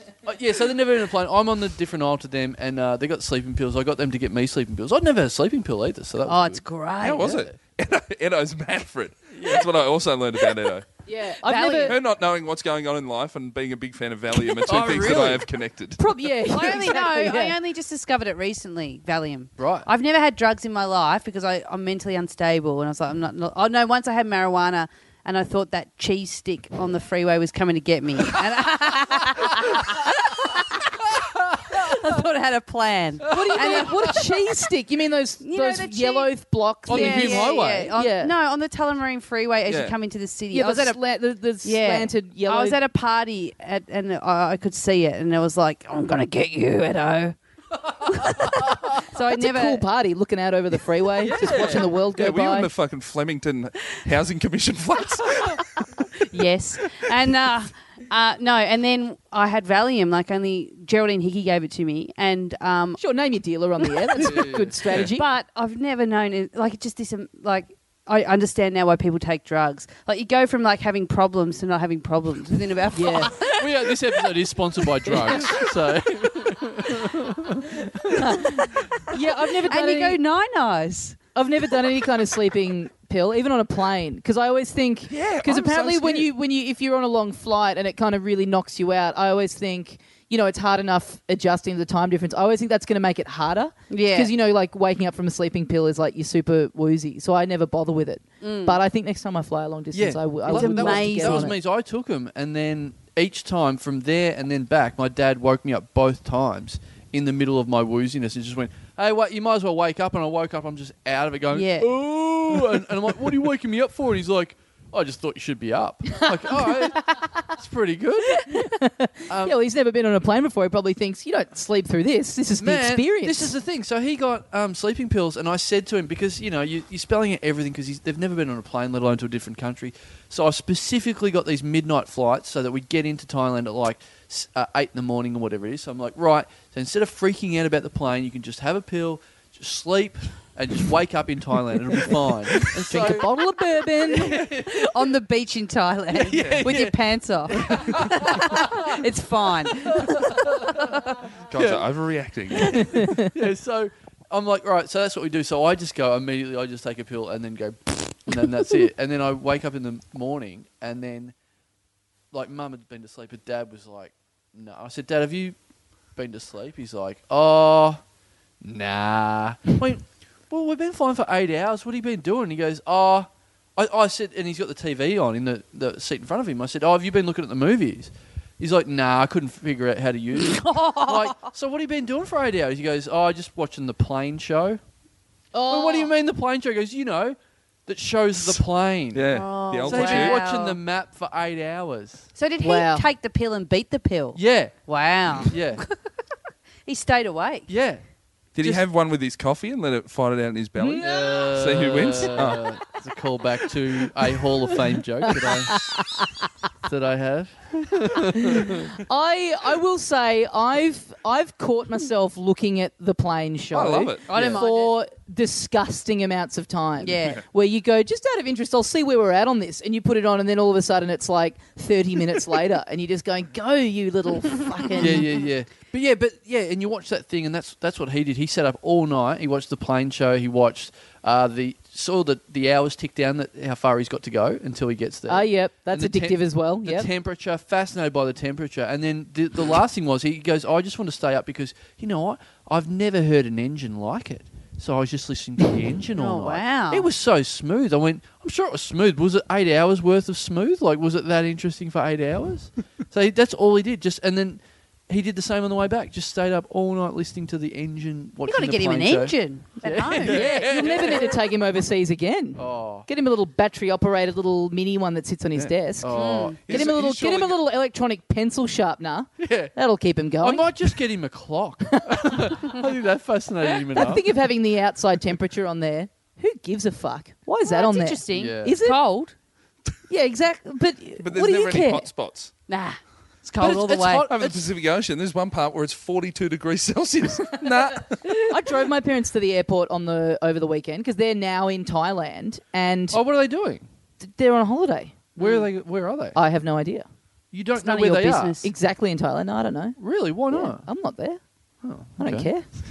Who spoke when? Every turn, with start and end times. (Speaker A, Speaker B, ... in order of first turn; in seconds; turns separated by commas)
Speaker A: 0.2-7.5, Speaker B: 6.2-7.4, Speaker C: 7.0-10.9, Speaker A: 9.3-9.7, Speaker D: 11.1-12.0, Speaker B: 11.4-12.0, Speaker C: 11.8-16.0, Speaker A: 14.5-15.5, Speaker D: 16.0-17.6, Speaker B: 16.5-31.0, Speaker A: 19.6-19.9, Speaker B: 31.6-34.3, Speaker A: 33.3-34.1, Speaker D: 33.3-38.3, Speaker B: 35.4-36.3, Speaker A: 36.9-37.9, Speaker B: 36.9-41.0, Speaker C: 39.7-40.0, Speaker D: 40.5-42.8, Speaker B: 41.6-47.4, Speaker B: 48.0-49.8, Speaker D: 49.3-52.7, Speaker A: 51.2-51.9, Speaker C: 51.5-56.1, Speaker B: 56.2-63.0, Speaker D: 63.0-65.3, Speaker B: 63.9-64.3, Speaker A: 64.2-64.8, Speaker B: 64.9-76.5, Speaker D: 72.9-73.3, Speaker A: 73.3-78.4, Speaker D: 78.1-80.2, Speaker B: 78.1-81.2, Speaker D: 81.3-101.6, Speaker C: 85.1-86.3, Speaker B: 93.9-94.3, Speaker B: 98.4-98.8, Speaker A: 99.9-118.5, Speaker B: 100.5-101.5, Speaker B: 111.5-111.9, Speaker D: 116.2-117.2, Speaker D: 118.5-123.5, Speaker A: 119.3-119.6, Speaker A: 122.6-145.2, Speaker D: 142.7-144.4, Speaker B: 144.4-151.1, Speaker A: 146.1-147.0, Speaker C: 146.3-146.8, Speaker A: 147.5-149.1, Speaker A: 149.7-151.9, Speaker C: 151.5-153.0, Speaker A: 152.5-161.3, Speaker D: 152.7-153.3, Speaker A: 162.3-165.6, Speaker A: 166.2-168.0, Speaker A: 168.6-184.8, Speaker B: 180.4-181.5, Speaker D: 185.5-186.1, Speaker A: 185.7-192.3, Speaker C: 189.1-190.4, Speaker B: 189.3-190.8, Speaker B: 192.4-196.0, Speaker D: 192.6-193.1, Speaker A: 194.3-194.8, Speaker A: 195.4-195.8, Speaker B: 196.9-197.7, Speaker A: 197.7-198.0, Speaker A: 198.6-198.8, Speaker C: 198.6-202.7, Speaker D: 200.8-201.5, Speaker A: 201.0-205.9, Speaker D: 205.4-206.2, Speaker A: 206.8-208.9, Speaker D: 208.2-225.4, Speaker C: 213.7-214.6, Speaker B: 214.2-214.9, Speaker A: 214.3-214.6, Speaker B: 217.0-217.4, Speaker A: 225.0-261.4, Speaker D: 235.3-237.1, Speaker B: 246.1-247.1, Speaker B: 258.4-261.3, Speaker C: 260.2-261.1, Speaker D: 260.3-266.1, Speaker A: 262.6-263.1, Speaker A: 266.0-266.6, Speaker B: 266.1-266.6, Speaker C: 266.6-267.6, Speaker D: 266.6-270.7, Speaker A: 269.4-269.7, Speaker A: 270.4-274.3, Speaker D: 271.9-272.5, Speaker D: 273.9-279.0, Speaker B: 277.6-279.3, Speaker A: 278.3-278.8, Speaker D: 280.1-282.1, Speaker C: 281.2-282.5, Speaker B: 282.7-284.3, Speaker A: 283.5-284.6, Speaker C: 284.3-288.5, Speaker D: 288.3-293.2, Speaker A: 293.1-293.9, Speaker D: 294.2-295.3, Speaker B: 295.4-295.7, Speaker A: 295.4-296.4, Speaker D: 296.4-297.1, Speaker A: 297.5-298.6, Speaker B: 297.8-298.7, Speaker D: 298.6-300.0, Speaker A: 300.0-300.9, Speaker D: 300.5-301.4, Speaker A: 301.8-302.5, Speaker D: 302.2-302.6